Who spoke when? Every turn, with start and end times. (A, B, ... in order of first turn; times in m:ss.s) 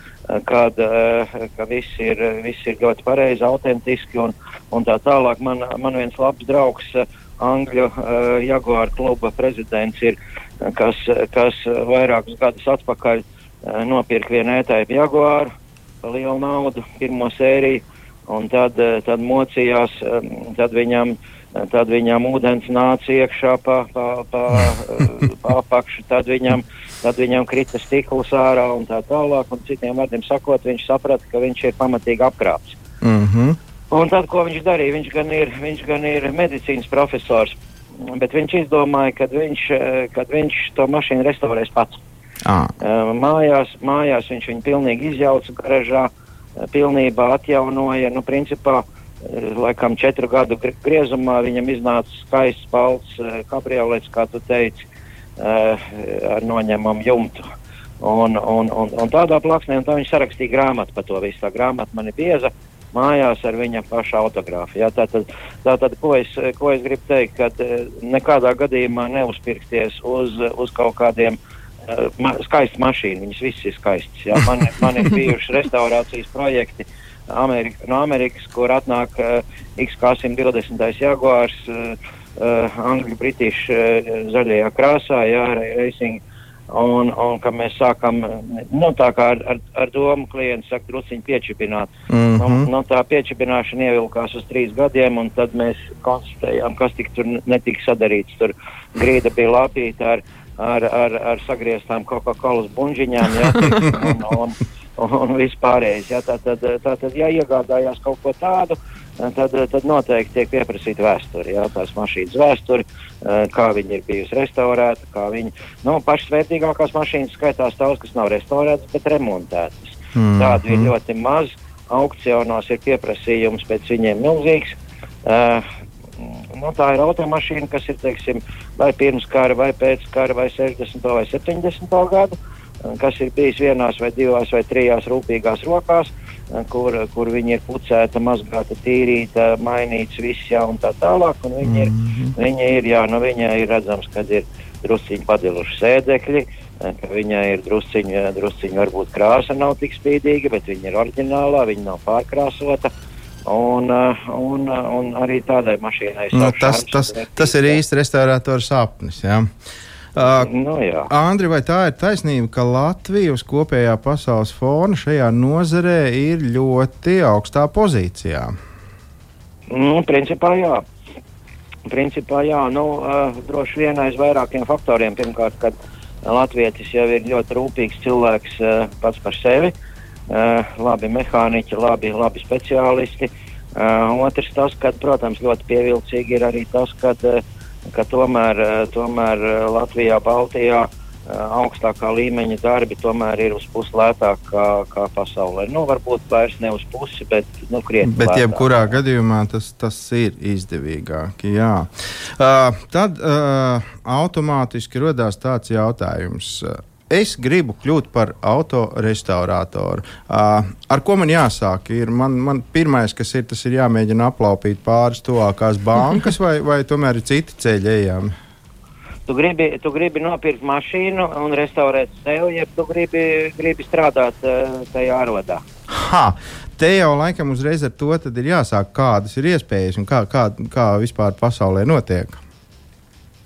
0:00.3-0:32.8 A
0:33.0-0:33.6 B
0:33.9-0:37.6 A
0:38.1-0:42.0 A
0:42.4-0:42.7 B
0:42.8-0:54.8 A
0:55.4-0:57.4 A
0:58.0-2:05.6 A
1:32.1-1:32.7 B
2:00.2-2:00.9 B
2:06.2-2:32.9 A
2:21.6-2:22.3 B
2:33.4-2:37.8 A
2:36.3-2:39.5 B
2:40.2-2:40.5 B
2:40.2-2:41.1 A
2:41.1-2:48.5 B
2:49.7-2:50.8 A
2:51.9-2:59.7 A
3:00.3-3:18.7 A
3:18.0-3:38.3 B
3:39.3-3:45.6 A
3:45.9-3:52.4 B